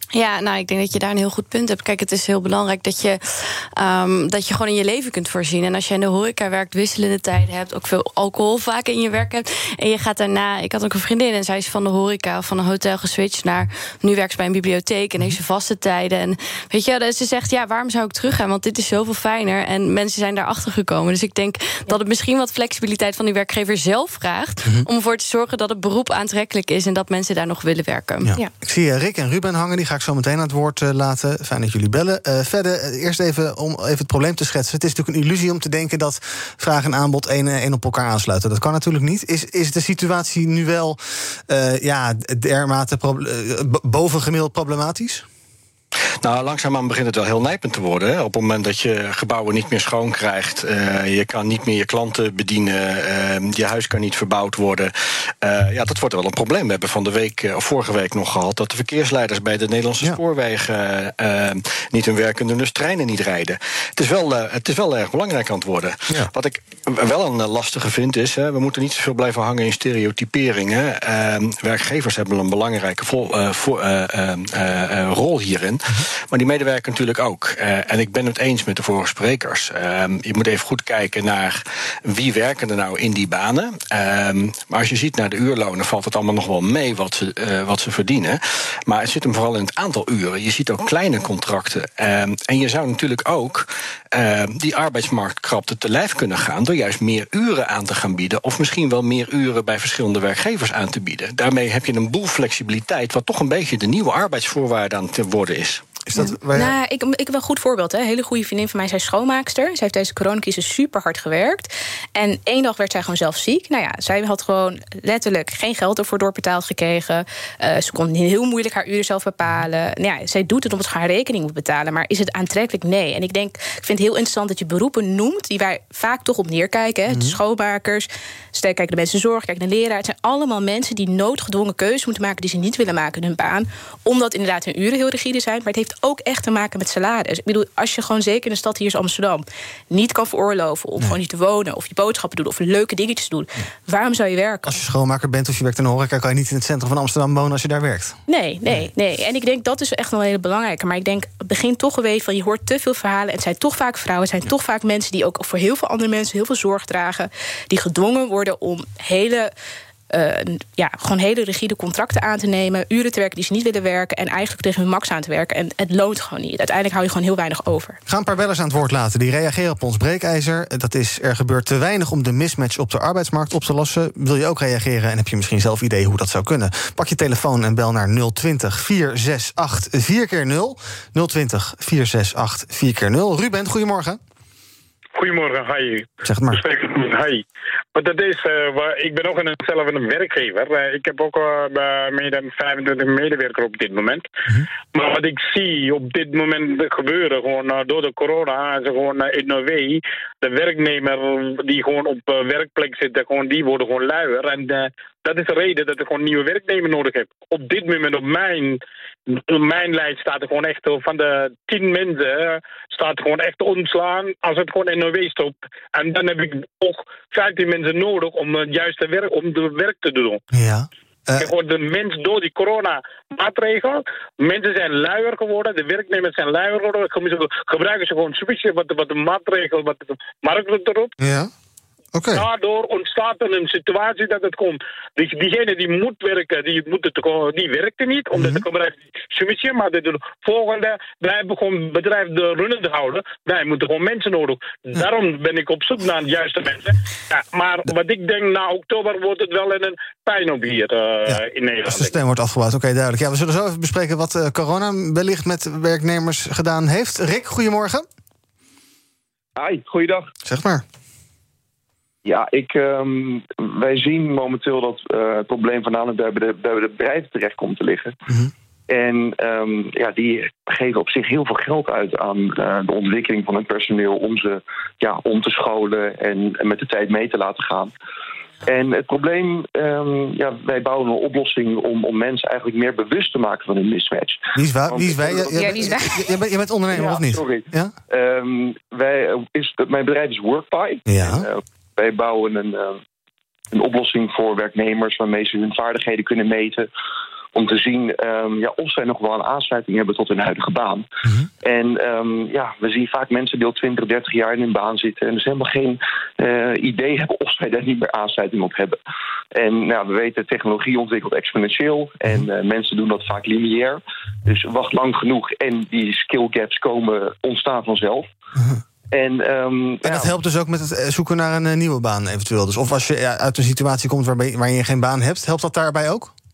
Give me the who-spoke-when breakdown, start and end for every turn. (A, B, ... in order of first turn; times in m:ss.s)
0:00.1-0:28.3 A
0:28.2-0:45.2 B
0:46.2-0:54.9 C
0:55.4-1:45.8 C
1:46.1-1:46.7 B
1:46.2-2:24.8 D
2:07.1-2:07.4 B
2:24.6-2:28.9 B
2:28.3-2:39.5 D
2:40.1-2:48.0 D
2:48.1-3:04.2 B
3:05.2-3:14.2 E
3:06.2-3:06.6 B
3:14.9-3:40.4 E
3:40.5-3:41.5 B
3:41.4-3:51.1 E
3:51.2-3:51.5 B
3:52.1-3:52.4 B
3:52.3-4:12.2 E
3:58.4-3:58.6 B
4:11.2-4:18.0 B
4:19.6-4:20.3 F
4:20.4-4:20.8 B
4:22.2-4:28.2 F
4:28.9-4:37.9 F
4:38.6-4:46.2 F
4:44.5-4:47.9 B
4:45.6-4:46.2 D
4:46.9-4:53.0 F
4:51.1-4:51.5 B
4:53.7-4:56.9 F
4:57.5-5:01.0 F
5:01.6-5:09.0 F
5:09.5-5:18.3 F
5:18.6-5:18.8 B
5:19.1-5:20.3 F
5:20.0-5:26.3 B